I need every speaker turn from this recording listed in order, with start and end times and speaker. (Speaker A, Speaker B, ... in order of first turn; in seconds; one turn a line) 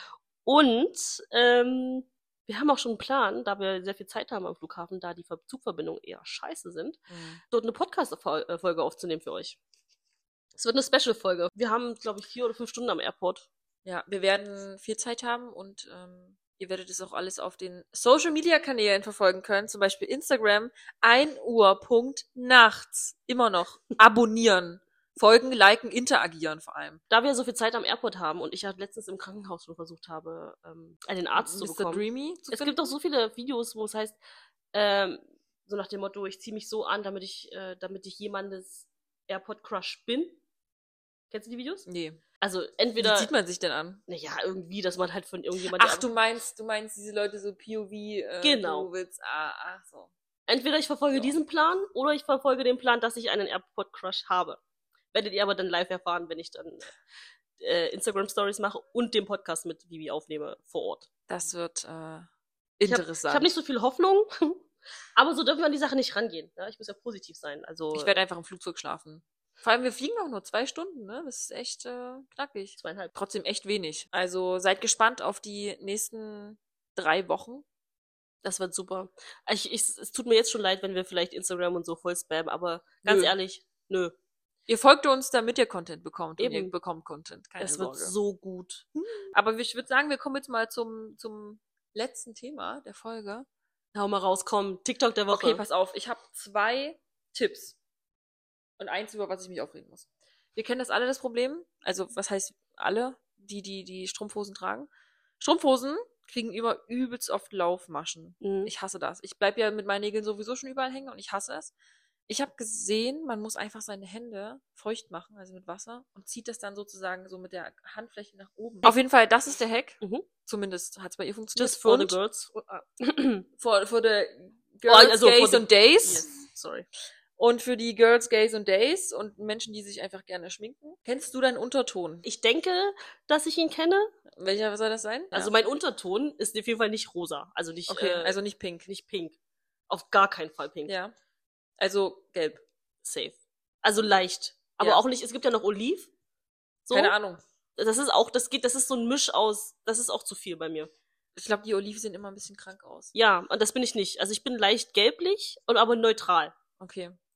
Speaker A: 0.4-9.6
Speaker B: 7.1-7.4
Speaker A: 10.6-13.5
Speaker B: 13.8-27.0
Speaker A: 27.1-34.2
Speaker B: 31.4-32.7
Speaker A: 34.7-40.4
Speaker A: 41.3-41.9
Speaker B: 41.9-42.2
Speaker A: 42.4-43.3
Speaker B: 43.0-44.0
Speaker A: 44.1-46.1
Speaker B: 45.6-50.1
Speaker A: 48.4-48.9
Speaker A: 50.5-54.6
Speaker A: 55.1-56.9
Speaker A: 57.6-61.1
Speaker B: 61.3-62.3
Speaker B: 62.8-63.5
Speaker A: 62.9-64.6
Speaker A: 65.2-68.1
Speaker B: 67.9-77.6
Speaker A: 72.8-73.1
Speaker A: 78.4-84.1
Speaker B: 83.0-83.3
Speaker B: 84.7-88.1
Speaker A: 86.4-86.7
Speaker A: 87.6-88.8
Speaker B: 89.0-93.5
Speaker A: 93.9-95.6
Speaker B: 95.3-97.8
Speaker B: 98.8-111.7
Speaker A: 108.4-108.7
Speaker B: 112.3-122.2
Speaker A: 120.0-120.2
Speaker A: 121.5-123.5
Speaker B: 123.6-126.4
Speaker A: 124.9-126.8
Speaker B: 127.4-132.2
Speaker A: 132.2-134.1
Speaker B: 134.3-135.5
Speaker A: 135.3-139.3
Speaker B: 137.9-138.9
Speaker A: 139.9-140.9
Speaker B: 140.9-141.1
Speaker B: 141.8-142.6
Speaker A: 143.0-146.1
Speaker A: 146.8-147.1
Speaker B: 146.9-147.4
Speaker A: 147.8-150.9
Speaker B: 151.3-153.1
Speaker A: 153.1-156.5
Speaker B: 156.8-157.2